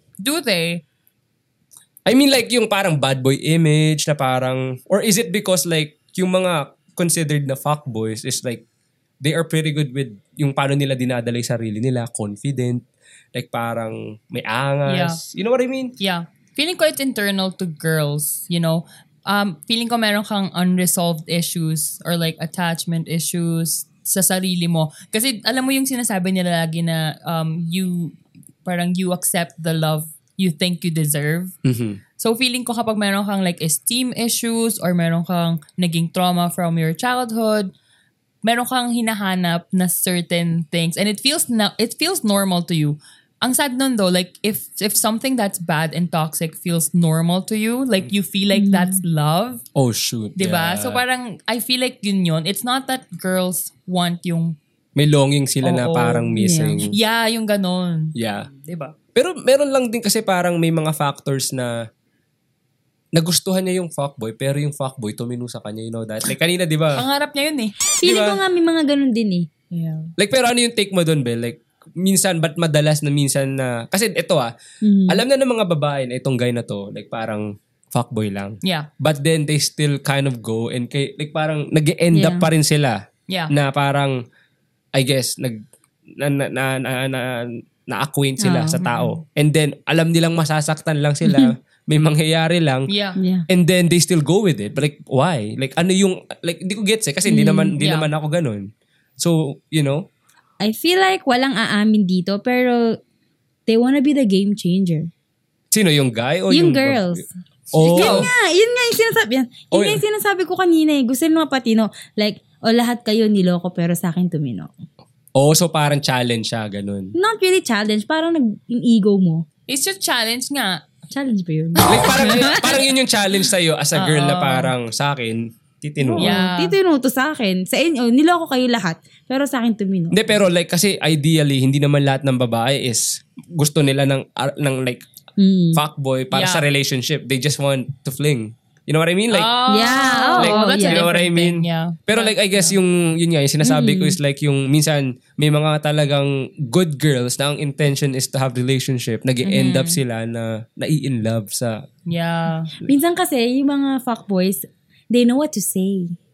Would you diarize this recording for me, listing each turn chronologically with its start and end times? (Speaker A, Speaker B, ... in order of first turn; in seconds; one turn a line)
Speaker A: 0.2-0.8
Speaker B: 2.0-8.6
Speaker B: 9.2-12.8
Speaker B: 13.3-15.9
Speaker A: 14.8-15.2
Speaker A: 16.0-31.5
Speaker B: 31.6-32.0
Speaker A: 32.2-37.7
Speaker A: 38.4-49.6
Speaker C: 48.5-49.0
Speaker B: 49.7-51.0
Speaker A: 50.4-54.6
Speaker B: 55.0-56.9
Speaker A: 55.6-58.9
Speaker C: 56.4-56.8
Speaker B: 58.1-58.5
Speaker B: 59.1-61.7
Speaker B: 63.1-67.0
Speaker A: 67.0-67.8
Speaker C: 68.0-69.5
Speaker B: 68.0-68.4
Speaker A: 69.7-70.1
Speaker B: 70.2-74.5
Speaker C: 74.8-75.2
Speaker B: 75.1-84.2
Speaker A: 78.6-78.9
Speaker C: 82.1-82.5
Speaker B: 84.9-85.6
Speaker B: 86.2-92.9
Speaker C: 88.4-89.1
Speaker C: 91.2-91.5
Speaker A: 92.9-93.2
Speaker C: 93.2-93.5
Speaker B: 93.5-100.0
Speaker C: 97.2-97.7
Speaker A: 97.8-98.1
Speaker C: 100.6-103.0
Speaker C: 103.7-105.1
Speaker B: 105.7-108.3
Speaker C: 106.5-107.3
Speaker A: 107.7-108.3
Speaker C: 107.8-114.7
Speaker B: 109.7-110.0
Speaker B: 115.3-117.1
Speaker C: 117.2-119.4
Speaker A: 119.7-120.8
Speaker C: 121.1-122.8
Speaker B: 121.8-126.4
Speaker A: 121.9-122.2
Speaker A: 123.9-124.7
Speaker C: 126.0-130.3
Speaker A: 126.2-126.8
Speaker B: 130.1-135.0
Speaker C: 135.4-135.8
Speaker B: 135.8-139.5
Speaker A: 136.3-136.7
Speaker A: 139.3-142.8
Speaker C: 139.7-141.1
Speaker B: 140.3-151.8
Speaker C: 143.6-144.2
Speaker A: 149.5-150.0
Speaker A: 152.1-152.7
Speaker C: 152.8-156.1